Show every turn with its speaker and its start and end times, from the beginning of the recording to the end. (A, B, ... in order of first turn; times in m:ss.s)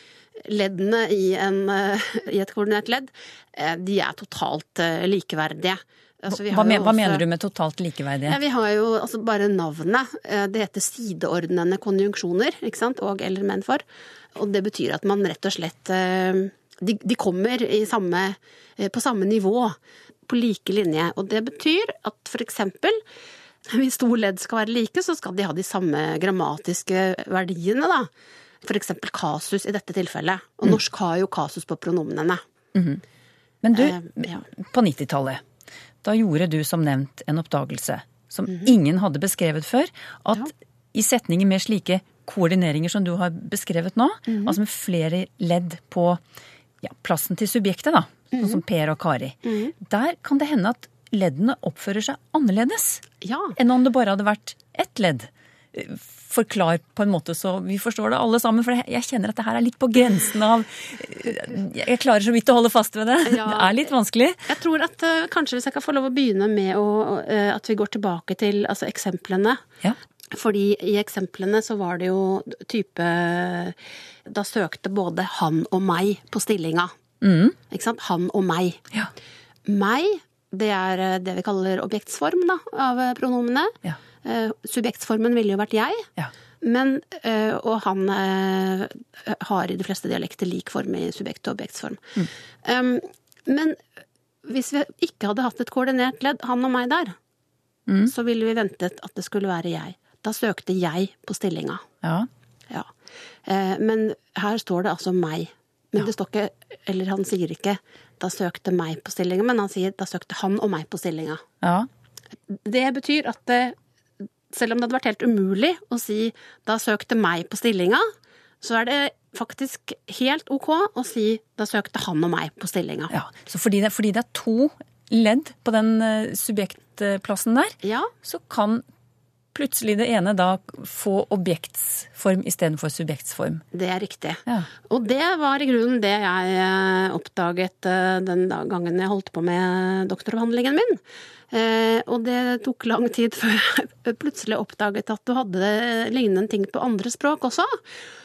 0:00.4-0:07.2 A
0:06.3-0:08.4 B
0:08.3-0:13.8 A
0:14.3-0:19.8 A
0:20.3-0:23.0 A
0:23.7-0:28.1 A
0:28.6-0:32.4 A
0:32.7-0:33.0 B
0:33.6-0:35.4 B
0:33.7-0:34.4 A
0:36.0-0:46.2 B
0:44.3-0:44.6 A
0:46.8-0:53.0 B
0:48.4-0:48.6 A
0:49.4-0:49.7 A
0:53.2-0:53.5 A
0:53.6-1:04.4 B
1:03.3-1:03.8 A
1:04.5-1:09.6 A
1:10.3-1:16.9 A
1:17.2-1:17.6 B
1:17.7-1:18.8 A
1:19.7-1:26.1 A
1:26.6-1:32.1 A
1:32.6-1:33.8 A
1:34.4-1:37.1 A
1:38.0-1:41.8 A
1:42.0-1:42.3 B
1:43.4-1:51.4 A
1:51.6-1:51.9 B
1:52.5-1:53.8 A
1:54.5-1:58.0 A
1:58.6-2:03.1 A
2:03.1-2:08.8 B
2:07.8-2:08.1 A
2:09.5-2:13.6 B
2:13.7-2:21.0 A
2:21.5-2:27.8 A